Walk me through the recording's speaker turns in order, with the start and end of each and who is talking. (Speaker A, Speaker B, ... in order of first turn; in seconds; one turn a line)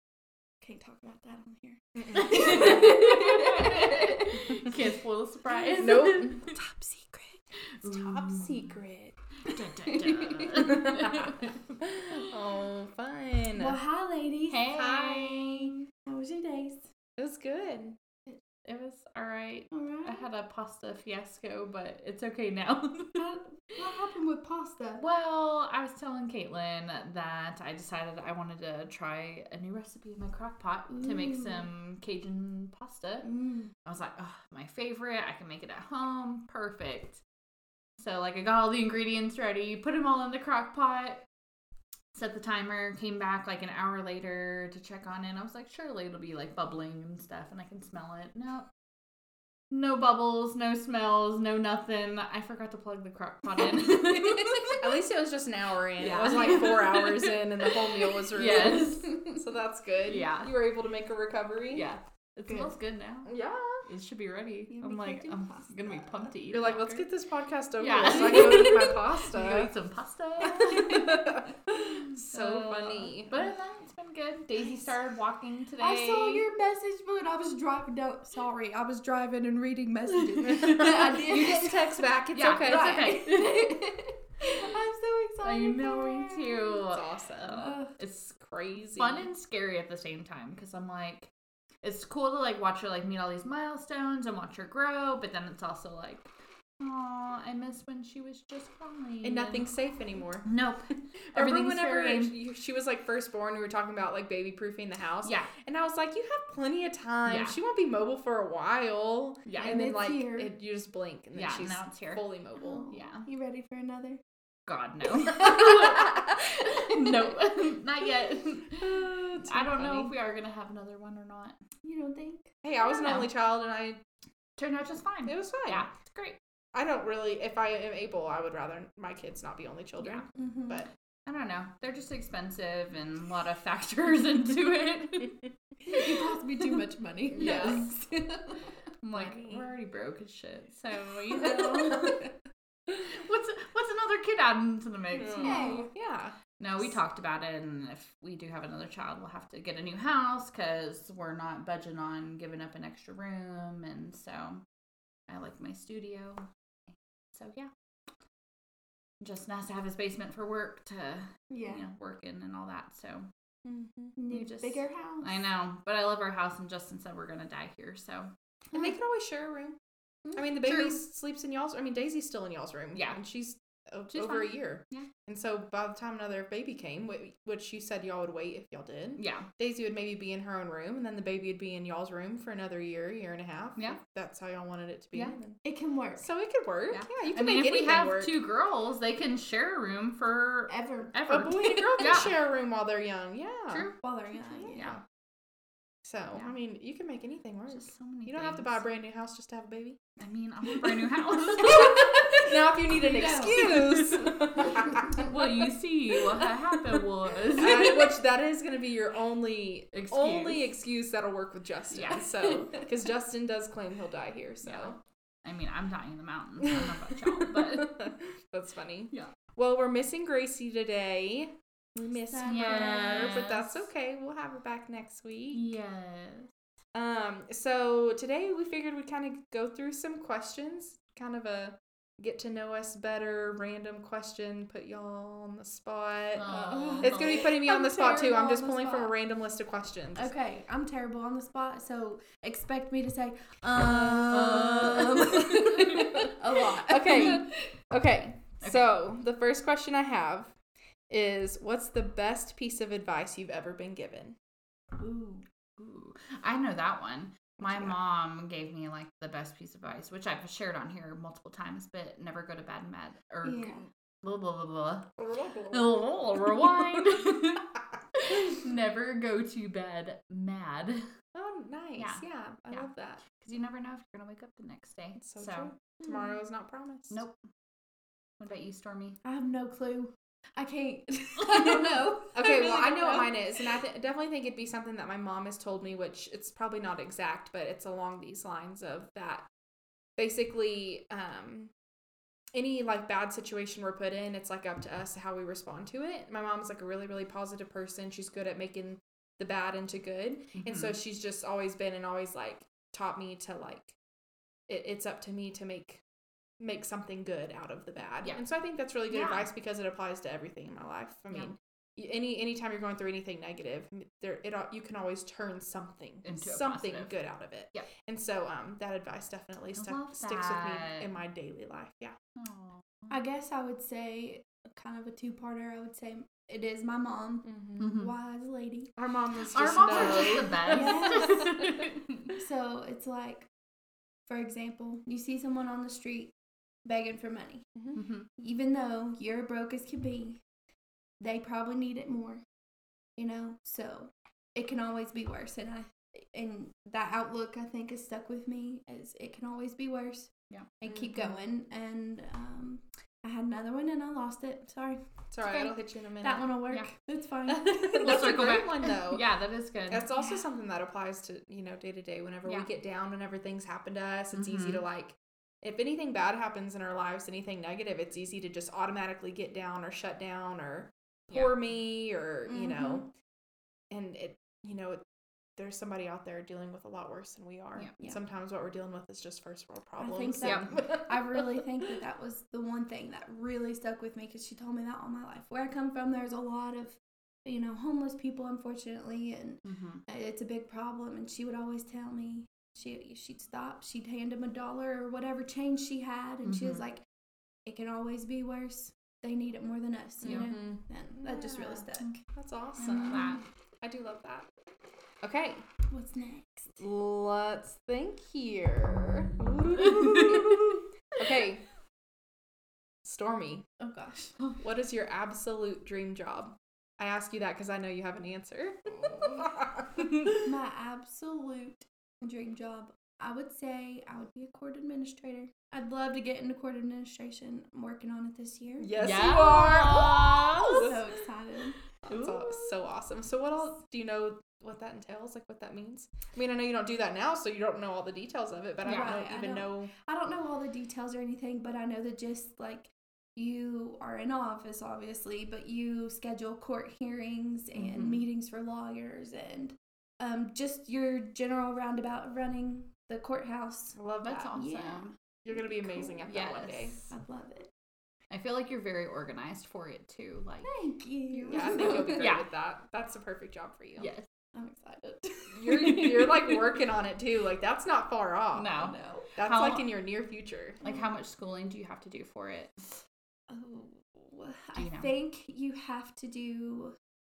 Speaker A: 0.6-4.8
Speaker B: 2.0-2.9
Speaker C: 2.2-6.6
Speaker B: 4.3-4.8
Speaker A: 5.5-7.4
Speaker B: 5.8-6.4
Speaker C: 7.8-8.7
Speaker B: 7.8-9.1
Speaker A: 9.4-11.4
Speaker C: 9.4-11.6
Speaker B: 10.7-13.8
Speaker A: 13.6-15.0
Speaker C: 14.5-15.8
Speaker B: 14.7-15.7
Speaker A: 16.1-16.9
Speaker B: 17.2-18.0
Speaker C: 18.6-23.3
Speaker A: 19.7-20.3
Speaker A: 23.2-25.0
Speaker C: 25.0-33.3
Speaker A: 30.9-31.7
Speaker A: 33.2-33.7
Speaker C: 33.9-37.2
Speaker C: 38.0-41.2
Speaker C: 42.1-48.7
Speaker C: 49.7-54.9
Speaker A: 54.0-54.8
Speaker B: 54.8-61.9
Speaker C: 56.0-59.3
Speaker A: 56.1-56.7
Speaker A: 58.9-59.4
Speaker C: 60.1-60.5
Speaker C: 61.7-63.3
Speaker B: 63.3-63.8
Speaker C: 63.9-67.1
Speaker A: 64.7-66.3
Speaker B: 66.5-69.7
Speaker C: 67.8-71.0
Speaker A: 70.4-72.0
Speaker B: 70.4-73.4
Speaker C: 72.0-76.5
Speaker A: 75.8-82.0
Speaker B: 80.4-83.2
Speaker C: 82.3-83.7
Speaker A: 82.6-86.8
Speaker C: 85.4-88.3
Speaker B: 86.9-87.7
Speaker A: 87.5-87.9
Speaker B: 88.3-89.3
Speaker C: 89.0-91.3
Speaker C: 91.8-96.3
Speaker C: 96.8-99.7
Speaker B: 99.2-100.5
Speaker C: 100.4-102.3
Speaker B: 101.3-112.9
Speaker C: 105.2-105.5
Speaker C: 107.3-107.6
Speaker C: 109.5-109.8
Speaker A: 109.6-110.5
Speaker C: 111.3-112.2
Speaker A: 112.6-114.2
Speaker C: 112.9-113.3
Speaker C: 114.7-121.6
Speaker A: 115.1-117.4
Speaker B: 118.8-120.1
Speaker A: 121.8-122.5
Speaker B: 122.6-124.0
Speaker C: 122.8-123.3
Speaker C: 124.6-126.4
Speaker B: 125.3-125.9
Speaker B: 126.7-130.9
Speaker C: 130.0-130.3
Speaker A: 130.3-130.9
Speaker C: 131.3-135.4
Speaker A: 135.8-138.7
Speaker B: 137.3-137.8
Speaker C: 137.4-137.9
Speaker C: 139.0-142.2
Speaker B: 139.1-139.7
Speaker A: 141.3-142.2
Speaker C: 143.0-145.8
Speaker B: 145.1-146.4
Speaker A: 145.4-145.9
Speaker C: 146.6-154.6
Speaker C: 155.3-157.7
Speaker C: 159.2-163.3
Speaker A: 161.5-161.9
Speaker B: 163.6-164.2
Speaker A: 164.2-165.4
Speaker C: 164.3-168.3
Speaker B: 168.7-169.8
Speaker B: 170.3-185.6
Speaker C: 170.7-171.0
Speaker C: 174.1-175.1
Speaker C: 179.2-179.5
Speaker A: 185.6-186.3
Speaker B: 186.2-188.3
Speaker C: 186.9-192.4
Speaker A: 190.7-191.2
Speaker B: 191.3-193.9
Speaker C: 193.7-194.0
Speaker A: 194.0-194.9
Speaker B: 194.5-195.0
Speaker B: 196.0-200.0
Speaker C: 197.7-198.8
Speaker C: 200.2-202.5
Speaker B: 201.6-205.5
Speaker A: 201.8-205.2
Speaker C: 203.2-204.4
Speaker C: 205.2-208.1
Speaker B: 207.6-215.0
Speaker C: 209.9-210.7
Speaker C: 211.9-212.5
Speaker C: 214.6-218.0
Speaker B: 217.4-225.6
Speaker A: 222.3-223.4
Speaker C: 222.5-223.8
Speaker C: 225.5-226.5
Speaker B: 226.9-240.3
Speaker C: 236.3-237.5
Speaker A: 236.9-239.1
Speaker A: 240.2-247.5
Speaker B: 243.8-250.6
Speaker C: 244.3-246.2
Speaker B: 251.1-254.4
Speaker A: 255.0-255.4
Speaker C: 255.8-265.1
Speaker B: 257.6-258.0
Speaker A: 263.4-263.9
Speaker B: 265.2-265.9
Speaker C: 265.7-271.0
Speaker B: 271.3-273.2
Speaker C: 272.0-275.7
Speaker B: 275.2-277.2
Speaker A: 276.1-276.3
Speaker C: 277.1-277.4
Speaker C: 278.4-279.2
Speaker A: 279.2-283.7
Speaker B: 282.3-289.5
Speaker B: 290.2-291.7
Speaker B: 292.5-304.0
Speaker C: 300.5-300.9
Speaker B: 304.7-306.0
Speaker B: 306.6-322.2
Speaker C: 309.1-309.5
Speaker C: 316.2-317.1
Speaker C: 319.8-321.1
Speaker C: 322.4-323.2
Speaker A: 323.1-328.9
Speaker B: 327.4-327.9
Speaker C: 327.8-328.1
Speaker B: 329.0-331.9
Speaker C: 329.5-332.3
Speaker A: 329.9-331.6
Speaker A: 332.4-333.5
Speaker A: 334.3-336.3
Speaker A: 336.9-337.7
Speaker C: 337.9-338.3
Speaker A: 338.4-340.4
Speaker A: 341.2-342.4
Speaker A: 343.2-358.6
Speaker B: 350.9-351.4
Speaker B: 355.3-356.5
Speaker B: 357.5-359.2
Speaker C: 357.9-360.1
Speaker B: 359.9-373.1
Speaker C: 364.3-364.8
Speaker C: 371.3-371.6
Speaker A: 372.5-373.0
Speaker B: 373.9-375.0
Speaker B: 375.6-381.5
Speaker A: 380.0-397.0
Speaker C: 380.4-380.7
Speaker C: 389.6-390.0
Speaker C: 396.4-396.8
Speaker A: 397.7-402.2
Speaker B: 400.2-404.5
Speaker C: 400.2-400.5
Speaker C: 402.8-403.4
Speaker A: 402.8-403.4
Speaker B: 405.2-405.6
Speaker A: 405.9-406.8
Speaker B: 406.8-411.6
Speaker C: 409.8-410.6
Speaker B: 413.0-413.7
Speaker A: 413.8-414.4
Speaker B: 414.6-420.4
Speaker A: 420.4-428.9
Speaker B: 428.8-431.0
Speaker C: 429.0-431.0
Speaker A: 430.5-431.8
Speaker B: 432.0-439.9
Speaker C: 432.1-432.8
Speaker C: 438.9-439.2
Speaker A: 438.9-454.0
Speaker C: 447.8-448.2
Speaker B: 454.0-454.5
Speaker C: 454.2-455.1
Speaker A: 454.5-456.2
Speaker B: 455.4-457.0
Speaker C: 456.2-457.1
Speaker A: 457.1-457.7
Speaker C: 458.3-460.7
Speaker A: 460.6-462.3
Speaker B: 461.4-464.1
Speaker C: 461.5-462.4
Speaker C: 464.0-464.3
Speaker A: 464.6-466.6
Speaker B: 465.5-468.8
Speaker C: 468.6-469.9
Speaker A: 468.8-469.3
Speaker B: 469.4-470.8
Speaker C: 470.8-472.8
Speaker A: 470.8-471.1
Speaker A: 473.5-476.9
Speaker C: 474.8-475.1